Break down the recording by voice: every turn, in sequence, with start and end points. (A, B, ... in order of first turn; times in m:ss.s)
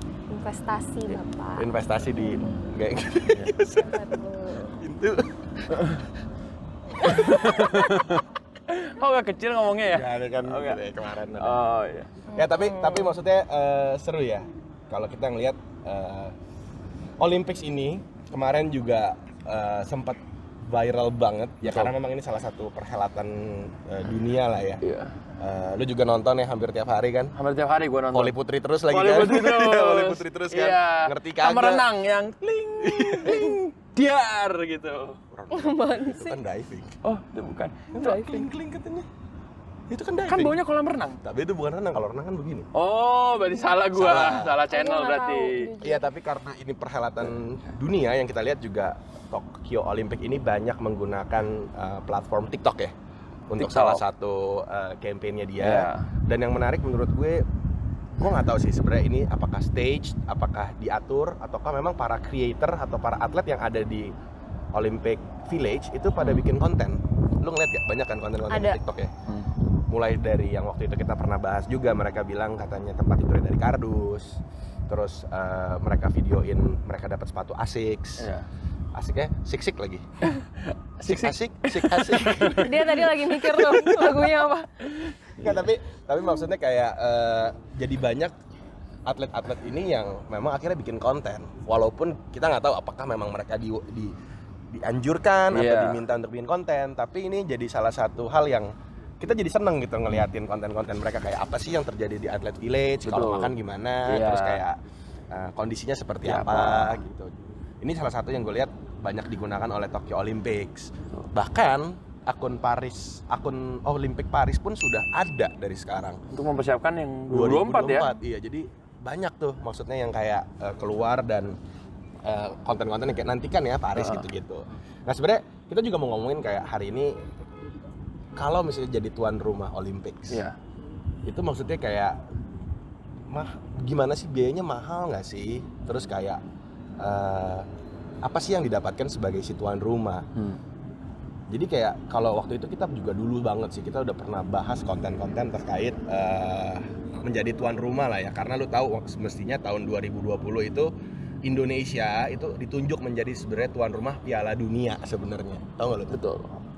0:00.3-0:01.7 A
0:01.6-0:04.0 B
0:03.6-0:04.8 A
0:04.8-0:06.0 B
0:05.8-0:06.0 C
0:07.0-0:10.8 C
0:07.0-0:07.7 B
0:09.9-0:11.6 B
0:11.4-0:12.1 C
0:12.3-0:13.2 A
0:12.3-0:16.4 B
0:17.2-0:24.8 B
0:21.6-0:21.9 C
0:24.8-0:25.2 C
0:25.4-0:27.3 B
0:27.4-0:28.4 C
0:28.1-0:31.9 B
0:28.9-0:35.2 C
0:32.8-0:33.6 B
0:35.3-0:37.0 B
0:35.5-0:36.4 A
0:37.0-0:38.4 C
0:37.9-0:39.1 B
0:39.9-0:40.6 B
0:40.3-0:41.2 C
0:41.2-0:42.7 B
0:42.7-0:45.7 C
0:43.4-0:43.8 A
0:43.9-0:44.6 B
0:44.7-0:46.1 A
0:45.8-0:52.9 B
0:53.5-0:57.4 B
0:53.6-0:54.0 C
0:55.6-0:56.1 C
0:58.1-1:04.1 B
1:04.7-1:09.1 B
1:08.5-1:08.8 A
1:09.9-1:18.3 B
1:18.2-1:18.5 C
1:19.0-1:20.0 B
1:20.2-1:23.6 C
1:21.0-1:24.0 B
1:22.6-1:24.8 A
1:25.0-1:25.7 C
1:25.4-1:28.3 B
1:29.1-1:34.1 B
1:34.7-1:44.8 B
1:35.5-1:36.0 C
1:43.0-1:43.5 C
1:44.0-1:44.6 C
1:45.3-1:56.2 B
1:46.2-1:47.0 C
1:56.3-1:58.2 C
1:57.3-2:01.6 B
2:02.2-2:07.2 B
2:04.0-2:04.3 C
2:08.4-2:10.4 B
2:10.3-2:10.6 C
2:11.2-2:12.2 B
2:13.3-2:16.4 B
2:17.0-2:17.7 B
2:18.2-2:20.3 B
2:20.4-2:20.6 C
2:21.5-2:30.9 B
2:31.4-2:36.2 B
2:36.1-2:36.5 C